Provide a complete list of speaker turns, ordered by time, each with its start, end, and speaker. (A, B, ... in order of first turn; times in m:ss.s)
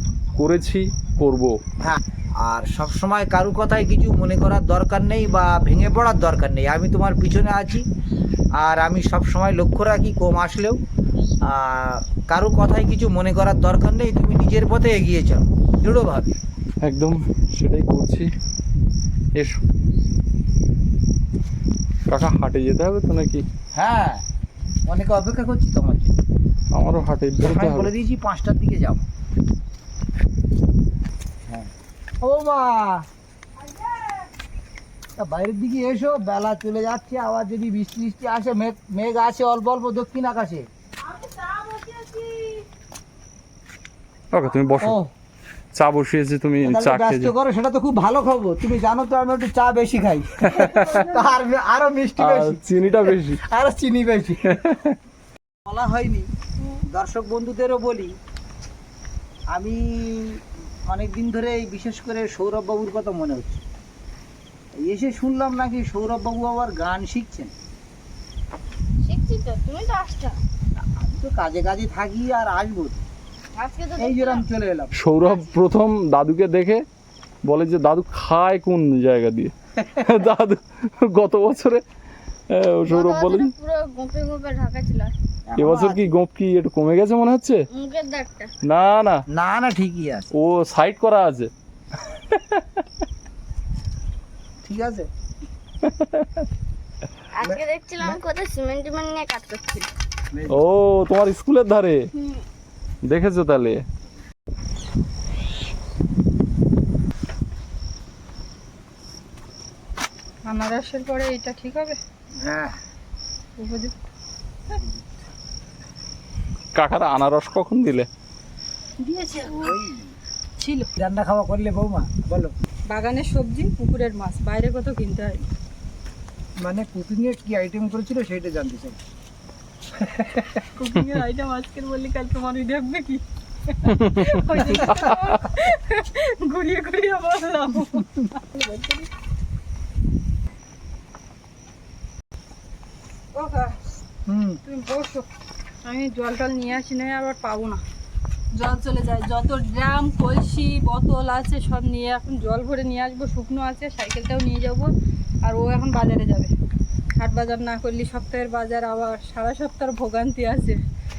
0:00.4-0:01.6 A
0:01.8-0:07.8 B
0:08.6-0:10.8 B
0:11.4-0:16.3 B
0:16.8-0:18.3 A
0:19.3-0:19.6 A
0:22.1-0:23.4 A
0:23.7-0:24.2 B
0:24.9-0:26.1 B
0:26.7-0:27.9 A
0:27.4-0:29.0 B
0:31.5-0:33.1 B
0:35.2-0:40.7 B
0:41.1-0:42.6 C
0:44.3-0:45.0 A
0:44.8-0:45.1 B
0:45.7-0:47.3 A
0:46.6-0:54.6 B
0:50.4-0:51.0 A
0:50.5-0:51.3 C
0:52.2-0:53.4 A
0:54.4-0:55.0 A
0:55.6-0:56.3 B
0:56.9-0:58.2 B
0:59.5-1:03.6 B
1:04.8-1:07.5 B
1:09.0-1:10.4 D
1:10.8-1:13.1 B
1:13.5-1:14.4 D
1:14.0-1:14.9 B
1:14.9-1:16.8 A
1:15.2-1:15.5 D
1:17.4-1:21.8 A
1:22.5-1:23.5 A
1:22.8-1:25.1 D
1:25.5-1:26.2 B
1:25.6-1:27.6 A
1:27.7-1:28.5 D
1:28.6-1:29.2 A
1:29.3-1:30.3 B
1:30.3-1:32.8 A
1:34.6-1:35.1 B
1:35.8-1:36.4 A
1:37.4-1:39.9 D
1:37.4-1:38.2 B
1:40.3-1:40.6 B
1:40.5-1:42.1 A
1:42.1-1:42.4 D
1:43.0-1:43.8 A
1:50.5-1:52.0 C
1:52.4-1:52.8 B
1:53.6-1:53.9 C
1:56.7-1:58.1 A
1:59.0-1:59.8 C
1:59.4-2:00.1 B
2:00.6-2:00.9 C
2:01.0-2:02.5 B
2:02.9-2:05.5 C
2:06.6-2:09.0 B
2:09.9-2:10.6 B
2:10.7-2:19.1 C
2:13.8-2:14.7 A
2:23.3-2:23.8 C
2:24.3-2:24.6 B
2:24.6-2:25.2 C
2:25.8-2:27.8 C
2:28.5-2:34.9 C
2:35.4-2:36.5 C
2:37.2-2:40.8 C